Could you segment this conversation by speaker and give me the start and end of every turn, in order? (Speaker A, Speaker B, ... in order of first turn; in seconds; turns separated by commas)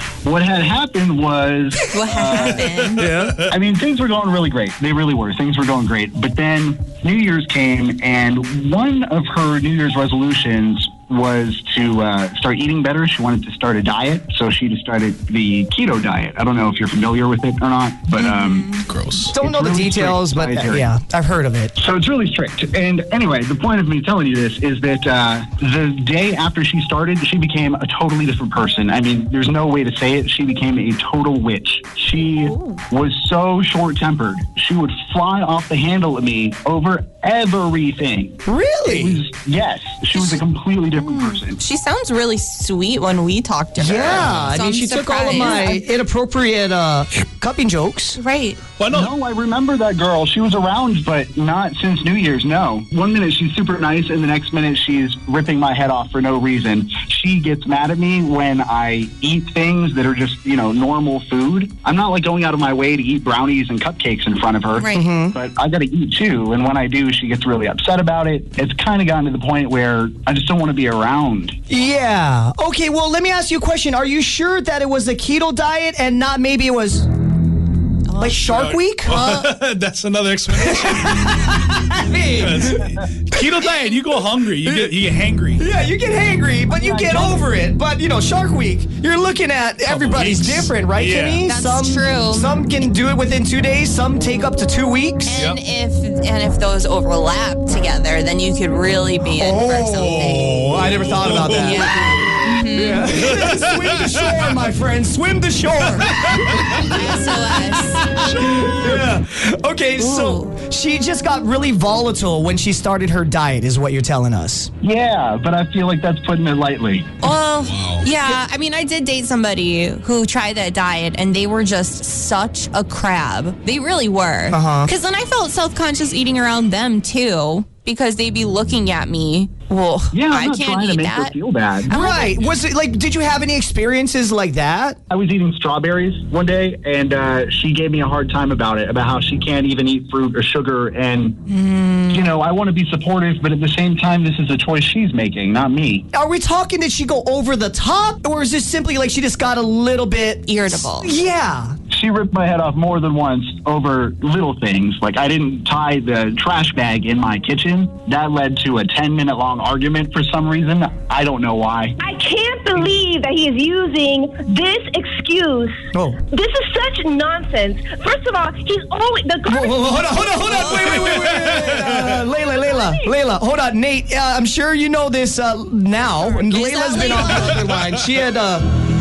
Speaker A: 0.2-2.6, Speaker B: 1.9-3.1, Speaker C: 2.4-3.5, Speaker A: 3.5-18.7, Speaker B: 18.1-18.9, Speaker C: 18.8-19.3, Speaker D: 19.3-21.7, Speaker A: 19.4-20.9, Speaker A: 21.8-41.6, Speaker B: 32.4-32.8, Speaker D: 38.5-39.2, Speaker B: 40.1-40.4, Speaker B: 41.0-45.8, Speaker D: 43.8-48.2, Speaker C: 44.1-44.5, Speaker B: 48.1-48.6, Speaker C: 48.8-49.1, Speaker A: 48.9-71.6, Speaker B: 64.7-65.1, Speaker D: 64.9-65.3, Speaker D: 71.7-77.1, Speaker B: 78.0-78.4, Speaker D: 78.2-79.2, Speaker C: 78.4-81.8, Speaker B: 79.1-79.5, Speaker D: 80.5-83.7, Speaker C: 82.3-85.6, Speaker D: 84.6-85.0, Speaker D: 85.6-95.4, Speaker A: 86.7-87.4, Speaker C: 89.9-91.4, Speaker B: 91.4-92.5, Speaker B: 95.3-100.6, Speaker D: 99.3-102.0, Speaker C: 100.1-102.2, Speaker B: 101.6-103.1, Speaker D: 102.7-107.1, Speaker C: 103.2-104.5, Speaker C: 106.1-106.9, Speaker B: 106.7-108.0, Speaker C: 108.1-108.4, Speaker D: 108.2-114.7, Speaker B: 110.0-110.5, Speaker A: 114.8-117.1, Speaker B: 117.2-131.3, Speaker C: 117.6-118.1, Speaker D: 124.5-124.9, Speaker A: 130.1-131.9, Speaker B: 131.9-132.5, Speaker D: 131.9-135.0, Speaker A: 135.1-141.4, Speaker B: 141.5-142.3, Speaker A: 142.1-146.0, Speaker D: 146.1-151.8, Speaker B: 150.5-151.1, Speaker A: 151.9-162.0, Speaker E: 162.0-165.7, Speaker D: 165.9-166.2, Speaker E: 166.3-171.0, Speaker D: 169.5-178.7, Speaker C: 170.9-172.2, Speaker E: 172.6-173.0, Speaker B: 176.2-177.6